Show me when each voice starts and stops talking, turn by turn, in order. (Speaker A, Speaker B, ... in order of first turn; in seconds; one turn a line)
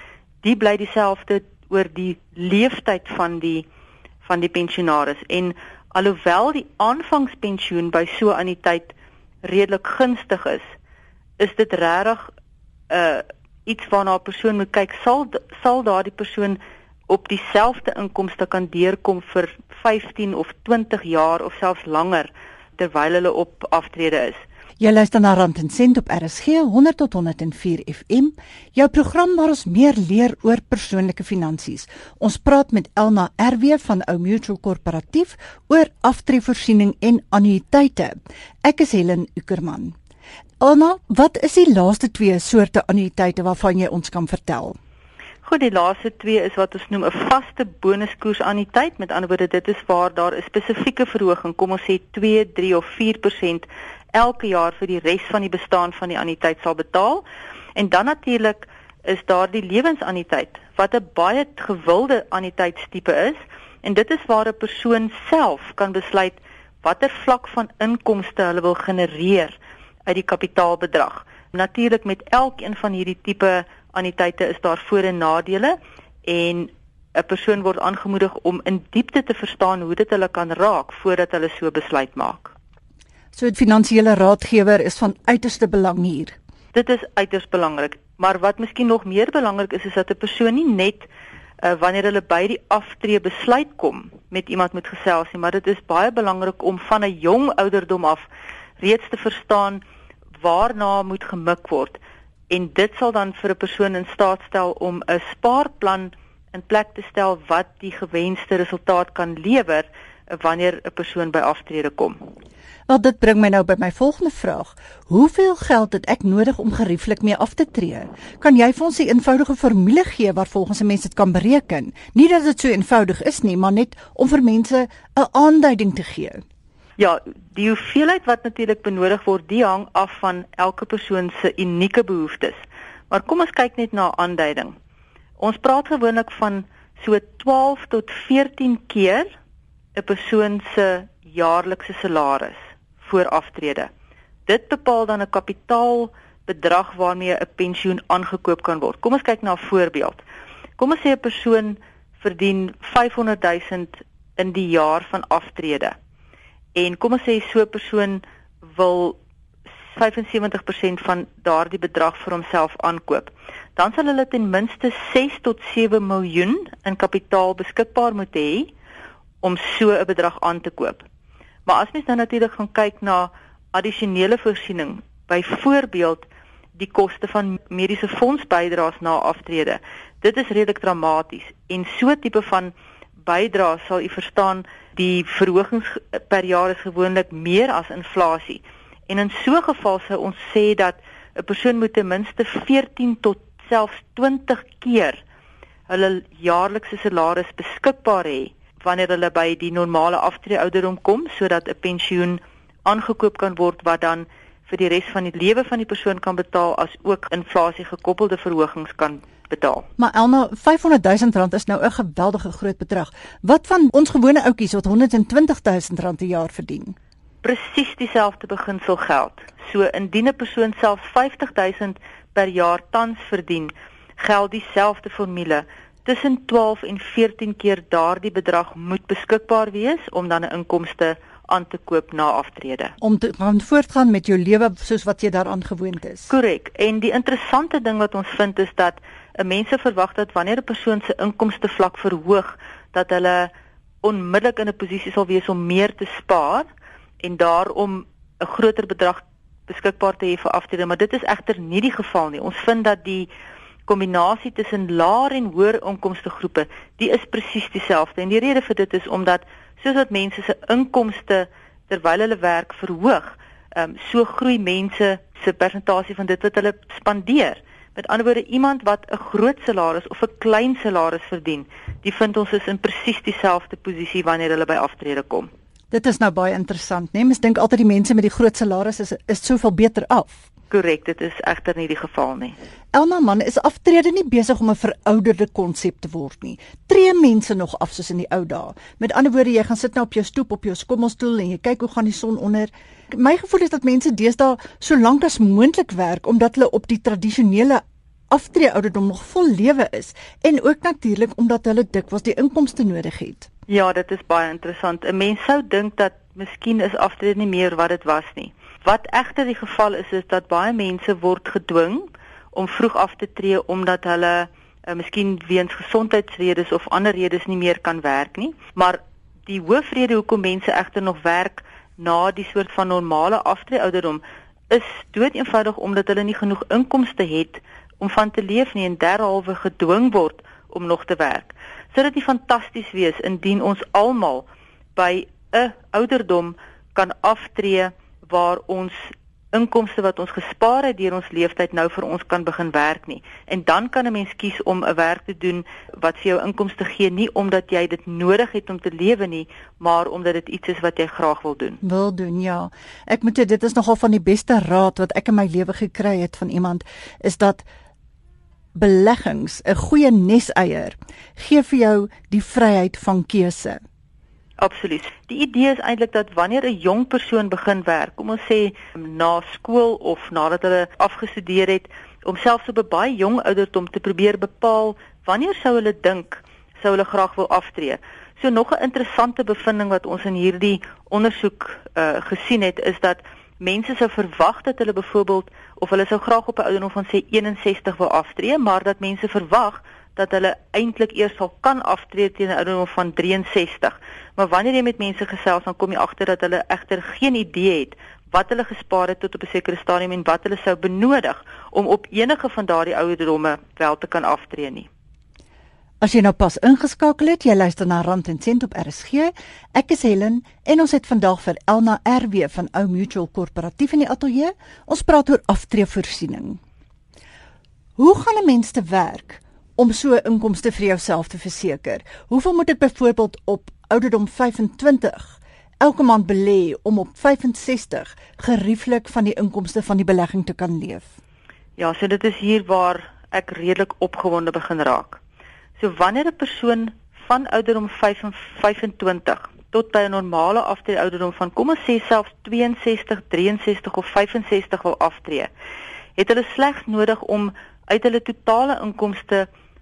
Speaker A: 0.4-3.6
Speaker A: 4.2-10.6
Speaker A: 11.4-12.3
Speaker A: 12.9-24.4
Speaker B: 24.8-39.9
Speaker B: 40.6-44.8
Speaker A: 45.4-57.2
Speaker A: 57.7-82.5
Speaker B: 83.3-86.3
Speaker A: 86.7-91.1
Speaker A: 91.6-98.3
Speaker A: 98.8-99.8
Speaker A: 100.4-112.2
Speaker B: 112.9-126.4
Speaker A: 127.0-132.6
Speaker A: 133.1-134.7
Speaker A: 135.4-139.3
Speaker A: 139.9-143.9
Speaker A: 144.5-150.2
Speaker A: 150.8-155.9
Speaker A: 156.7-159.2
Speaker A: 159.9-168.7
Speaker A: 169.4-171.0
Speaker A: 171.7-195.2
Speaker A: 195.9-209.8
Speaker B: 210.0-216.9
Speaker A: 217.4-232.9
Speaker B: 233.0-236.3
Speaker A: 236.3-243.5
Speaker A: 244.0-246.7
Speaker A: 247.2-253.3
Speaker A: 253.9-275.5
Speaker B: 275.9-280.4
Speaker A: 280.7-282.6
Speaker B: 282.9-303.5
Speaker A: 303.7-351.8
Speaker B: 351.8-357.6
Speaker B: 358.8-363.8
Speaker A: 364.6-404.9
Speaker B: 406.0-416.6
Speaker B: 418.0-431.1
Speaker A: 431.8-435.2
Speaker A: 435.8-445.5
Speaker A: 446.1-449.5